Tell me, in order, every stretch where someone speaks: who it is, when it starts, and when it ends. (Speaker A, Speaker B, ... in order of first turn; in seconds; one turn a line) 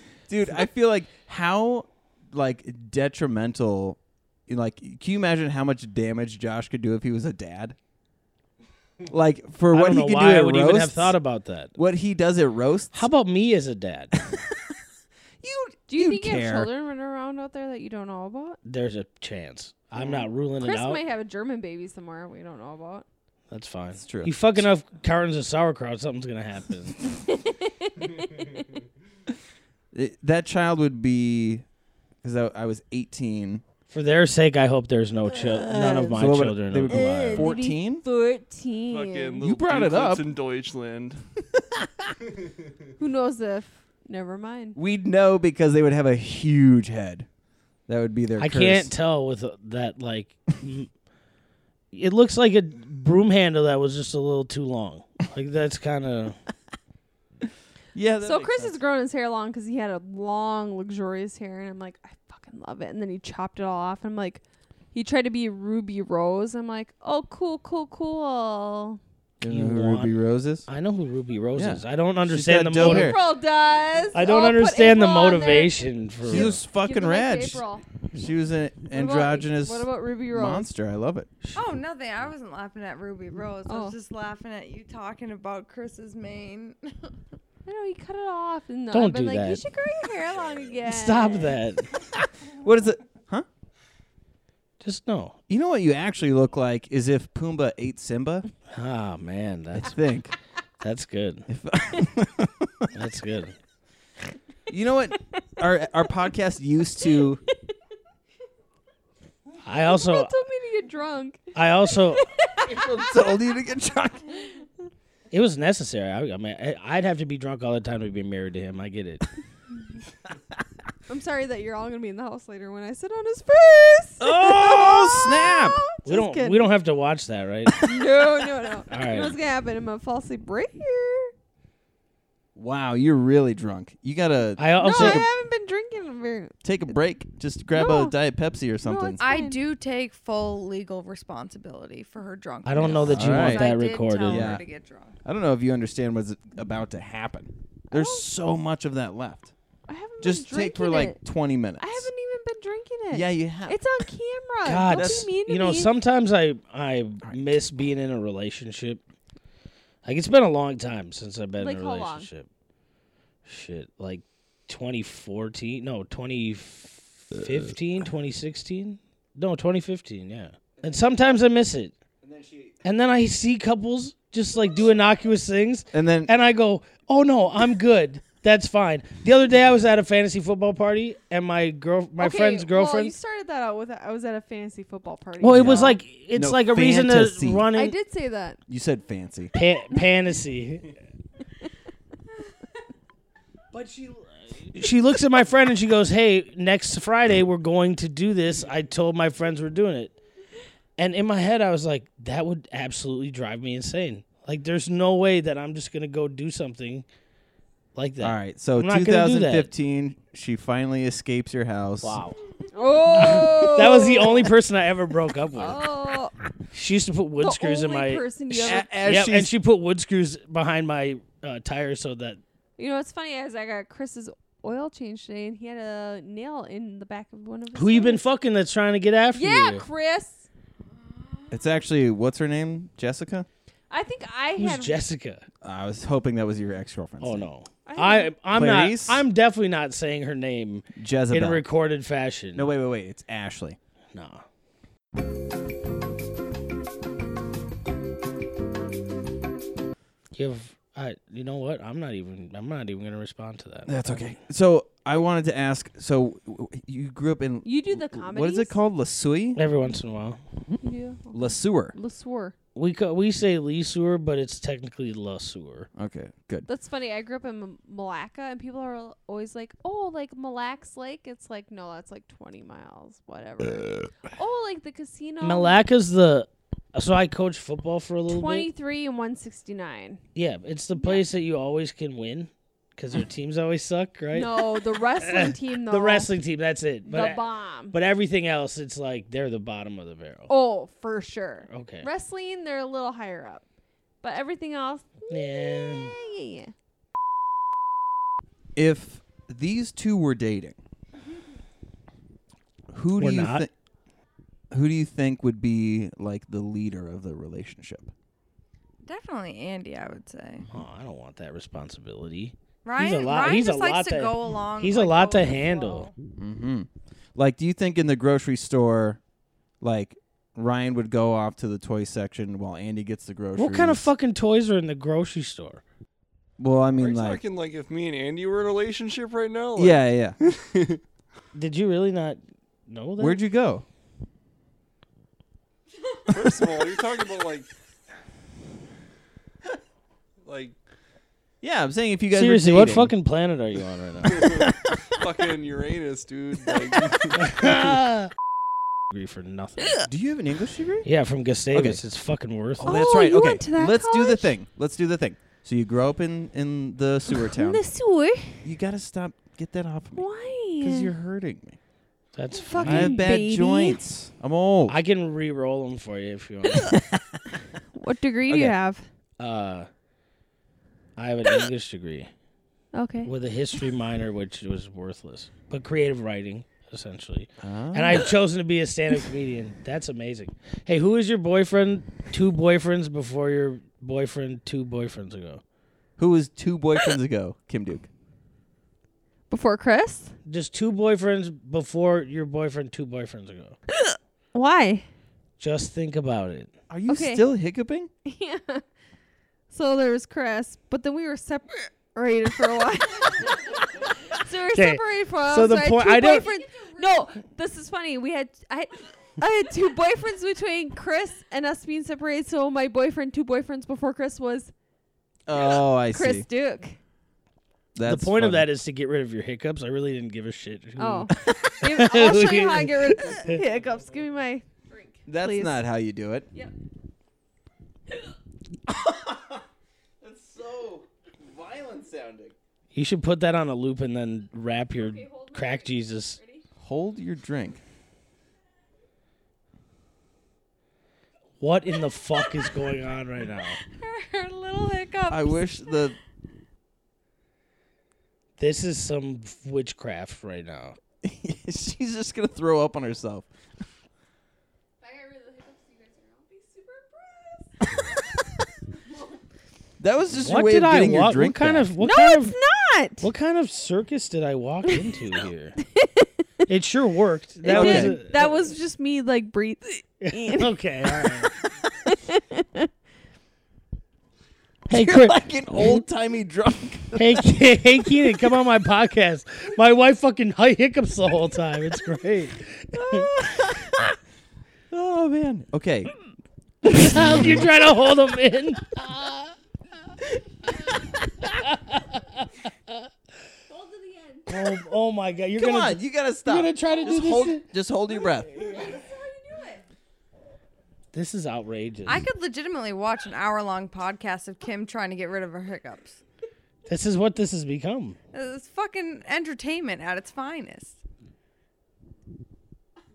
Speaker A: 0.3-7.8
Speaker A: 9.1-11.2
Speaker B: 9.7-11.8
Speaker A: 11.8-13.1
Speaker B: 12.9-14.1
Speaker A: 14.2-14.7
Speaker A: 15.4-16.7
Speaker C: 15.9-18.6
Speaker B: 18.6-21.0
Speaker A: 20.0-20.3
Speaker C: 20.6-23.1
Speaker B: 23.5-27.1
Speaker A: 24.0-24.6
Speaker C: 27.1-28.6
Speaker A: 29.9-31.6
Speaker A: 32.2-33.6
Speaker B: 33.9-37.5
Speaker C: 35.5-36.1
Speaker A: 35.8-38.0
Speaker C: 36.9-39.4
Speaker D: 38.9-41.2
Speaker A: 39.4-40.3
Speaker A: 41.5-41.9
Speaker C: 43.0-44.8
Speaker A: 44.8-47.3
Speaker A: 47.9-48.9
Speaker B: 48.4-50.9
Speaker B: 51.9-56.4
Speaker A: 57.9-58.8
Speaker C: 58.2-64.4
Speaker C: 64.9-69.0
Speaker A: 69.4-70.7
Speaker B: 69.4-73.2
Speaker A: 71.5-73.2
Speaker C: 72.8-77.8
Speaker B: 74.1-76.6
Speaker A: 76.3-81.3
Speaker C: 78.9-80.7
Speaker E: 81.5-86.8
Speaker C: 83.7-84.0
Speaker C: 87.7-91.6
Speaker B: 88.9-89.7
Speaker B: 90.8-91.9
Speaker A: 92.4-93.5
Speaker B: 94.8-95.4
Speaker A: 95.5-98.5
Speaker B: 98.7-100.0
Speaker A: 99.8-100.3
Speaker B: 100.8-101.5
Speaker A: 101.5-102.9
Speaker B: 102.9-103.6
Speaker A: 104.7-107.4
Speaker B: 109.7-110.3
Speaker C: 109.9-113.0
Speaker B: 111.5-112.2
Speaker A: 112.6-114.3
Speaker B: 115.3-119.2
Speaker C: 121.1-126.0
Speaker A: 124.2-126.7
Speaker B: 126.0-127.8
Speaker A: 127.7-128.3
Speaker C: 127.8-131.3
Speaker B: 128.9-129.4
Speaker A: 132.6-135.3
Speaker B: 134.6-135.2
Speaker C: 134.8-136.6
Speaker A: 136.6-139.2
Speaker C: 137.8-138.2
Speaker C: 138.8-139.6
Speaker E: 139.2-145.2
Speaker B: 142.7-144.6
Speaker A: 143.1-143.7
Speaker A: 144.3-144.6
Speaker A: 145.2-149.5
Speaker C: 147.9-148.2
Speaker C: 149.9-151.2
Speaker A: 150.2-152.1
Speaker C: 151.8-155.9
Speaker A: 153.1-153.8
Speaker B: 154.6-159.0
Speaker A: 154.9-155.3
Speaker A: 157.2-157.5
Speaker B: 160.1-162.5
Speaker C: 161.6-162.3
Speaker B: 163.4-171.9
Speaker A: 170.8-171.3
Speaker A: 172.2-172.8
Speaker B: 172.8-183.2
Speaker A: 175.9-176.3
Speaker C: 182.2-186.0
Speaker B: 185.4-187.9
Speaker A: 185.5-187.7
Speaker C: 187.7-188.6
Speaker A: 188.7-189.5
Speaker B: 189.6-191.0
Speaker B: 193.7-200.1
Speaker B: 201.0-207.1
Speaker B: 207.9-209.7
Speaker A: 208.2-212.2
Speaker B: 212.0-212.4
Speaker C: 212.7-214.5
Speaker B: 213.2-215.9
Speaker C: 215.6-216.3
Speaker B: 216.7-218.2
Speaker C: 217.4-218.9
Speaker A: 218.5-219.5
Speaker B: 219.0-222.4
Speaker C: 222.8-228.2
Speaker B: 227.8-229.8
Speaker C: 229.3-230.5
Speaker A: 231.5-233.5
Speaker C: 233.9-235.0
Speaker B: 234.6-235.4
Speaker A: 235.6-237.5
Speaker B: 237.2-242.7
Speaker C: 237.9-238.3
Speaker A: 238.5-239.2
Speaker A: 240.9-241.6
Speaker A: 242.6-243.8
Speaker B: 244.1-244.4
Speaker B: 250.3-254.4
Speaker A: 253.9-259.6
Speaker C: 257.6-258.8
Speaker B: 259.6-260.4
Speaker C: 260.8-262.6
Speaker A: 261.3-262.0
Speaker B: 262.8-265.9
Speaker A: 265.9-266.7
Speaker C: 266.7-275.8
Speaker B: 275.4-278.7
Speaker C: 278.3-280.2
Speaker B: 280.4-290.5
Speaker C: 281.0-281.2
Speaker C: 284.3-286.3
Speaker C: 287.1-287.9
Speaker C: 290.5-293.6
Speaker B: 291.7-292.1
Speaker C: 294.2-296.7
Speaker B: 295.3-296.2
Speaker A: 298.8-300.8
Speaker A: 302.9-303.7
Speaker B: 303.2-303.7
Speaker A: 304.7-308.1
Speaker E: 309.1-310.7
Speaker B: 310.7-316.1
Speaker E: 312.8-316.1
Speaker A: 316.4-319.2
Speaker A: 319.8-324.1
Speaker B: 323.6-325.8
Speaker A: 326.6-327.4
Speaker D: 326.9-331.0
Speaker A: 329.8-330.4
Speaker B: 331.5-333.4
Speaker A: 333.2-333.9
Speaker D: 336.3-337.7
Speaker D: 340.4-340.8
Speaker A: 341.6-343.1
Speaker B: 342.3-344.5
Speaker D: 344.3-347.8
Speaker A: 344.4-345.2
Speaker A: 346.7-347.2
Speaker B: 347.4-348.3
Speaker B: 349.1-350.0
Speaker A: 350.0-351.1
Speaker B: 351.1-353.1
Speaker A: 351.7-352.0
Speaker A: 352.8-357.9
Speaker C: 352.8-354.5
Speaker C: 357.4-358.7
Speaker A: 358.6-360.3
Speaker C: 360.1-361.1
Speaker A: 360.8-361.8
Speaker B: 362.4-363.3
Speaker C: 362.6-364.0
Speaker A: 362.8-365.0
Speaker B: 364.9-366.9
Speaker A: 366.9-367.2
Speaker C: 367.9-369.1
Speaker A: 368.5-368.8
Speaker B: 369.4-369.9
Speaker B: 371.2-372.3
Speaker C: 372.9-373.3
Speaker B: 373.2-385.6
Speaker A: 377.6-378.3
Speaker A: 386.2-388.1
Speaker C: 389.5-390.4
Speaker B: 390.5-393.8
Speaker C: 394.0-395.1
Speaker B: 395.6-396.7
Speaker A: 396.9-398.1
Speaker C: 397.1-397.4
Speaker C: 398.2-398.9
Speaker C: 399.7-414.7
Speaker B: 404.7-406.5
Speaker A: 415.5-416.5
Speaker C: 415.6-417.0
Speaker A: 417.9-418.7
Speaker B: 418.1-423.6
Speaker C: 421.0-425.8
Speaker A: 425.3-426.5
Speaker A: 428.9-429.6
Speaker A: 430.2-432.6
Speaker B: 432.9-436.4
Speaker C: 435.0-436.6
Speaker A: 436.8-437.8
Speaker B: 441.6-443.8
Speaker E: 444.0-445.5
Speaker A: 445.3-446.2
Speaker B: 448.6-451.0
Speaker A: 451.2-453.5
Speaker C: 455.0-457.7
Speaker A: 460.0-461.9
Speaker B: 460.4-462.6
Speaker C: 462.0-463.3
Speaker B: 463.2-465.8
Speaker C: 465.9-466.3
Speaker B: 466.7-468.6
Speaker C: 467.6-471.3
Speaker A: 467.7-468.2
Speaker B: 470.2-471.5
Speaker C: 472.1-472.9
Speaker B: 474.9-476.0
Speaker A: 474.9-477.5
Speaker B: 477.2-483.3
Speaker A: 483.1-484.1
Speaker A: 484.9-486.1
Speaker B: 486.8-489.5
Speaker A: 486.9-487.7
Speaker B: 491.5-493.1
Speaker C: 493.7-494.7
Speaker B: 494.5-497.7
Speaker A: 495.6-498.5
Speaker C: 498.4-499.8
Speaker B: 501.1-502.2
Speaker E: 502.1-506.2
Speaker B: 506.9-508.2
Speaker E: 508.3-511.0